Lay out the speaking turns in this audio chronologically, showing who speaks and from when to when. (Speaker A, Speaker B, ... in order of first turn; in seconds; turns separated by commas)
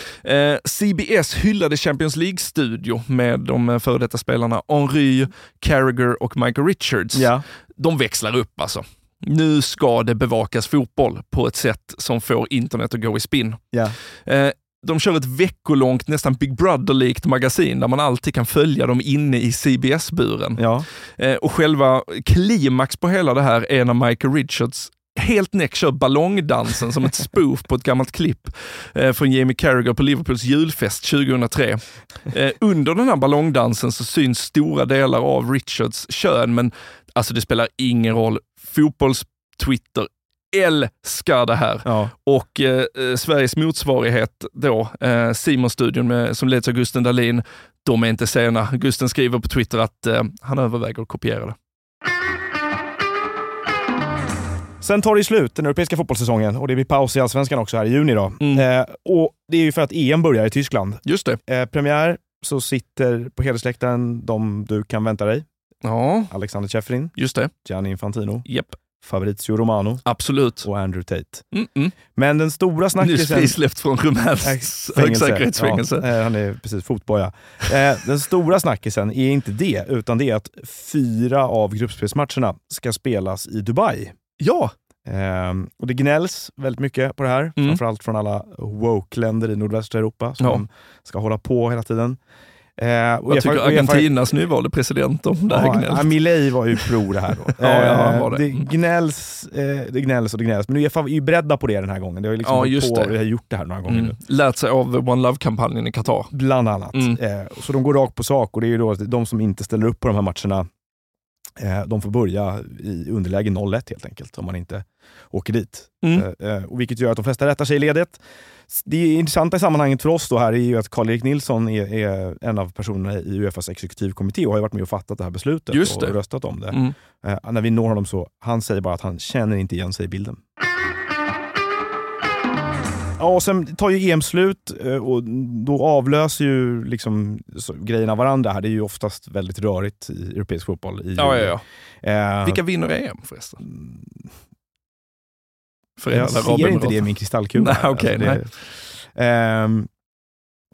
Speaker A: 0.2-13.6, Speaker B: 7.1-7.4, Speaker A: 14.3-20.6, Speaker B: 20.6-20.9, Speaker A: 21.2-51.5, Speaker B: 41.9-42.1, Speaker B: 54.8-65.5, Speaker A: 61.0-61.4, Speaker A: 65.8-66.3, Speaker B: 66.3-68.5, Speaker A: 67.2-67.5, Speaker A: 68.5-68.8, Speaker B: 69.0-70.0, Speaker A: 70.1-70.7, Speaker B: 70.6-71.5, Speaker A: 71.5-72.0, Speaker B: 72.2-73.6, Speaker A: 73.0-76.1, Speaker B: 74.4-84.2, Speaker A: 84.4-84.7, Speaker B: 85.1-92.2, Speaker B: 92.8-94.1, Speaker A: 93.3-96.2, Speaker B: 95.5-104.2, Speaker A: 97.5-98.7, Speaker A: 102.4-103.2, Speaker A: 103.9-106.3, Speaker B: 106.3-110.7, Speaker B: 111.6-130.4, Speaker A: 125.7-126.2, Speaker B: 133.2-142.6, Speaker A: 141.2-141.6, Speaker A: 142.4-143.6, Speaker B: 143.6-144.3, Speaker A: 146.0-148.4, Speaker B: 146.1-148.5, Speaker B: 149.0-149.9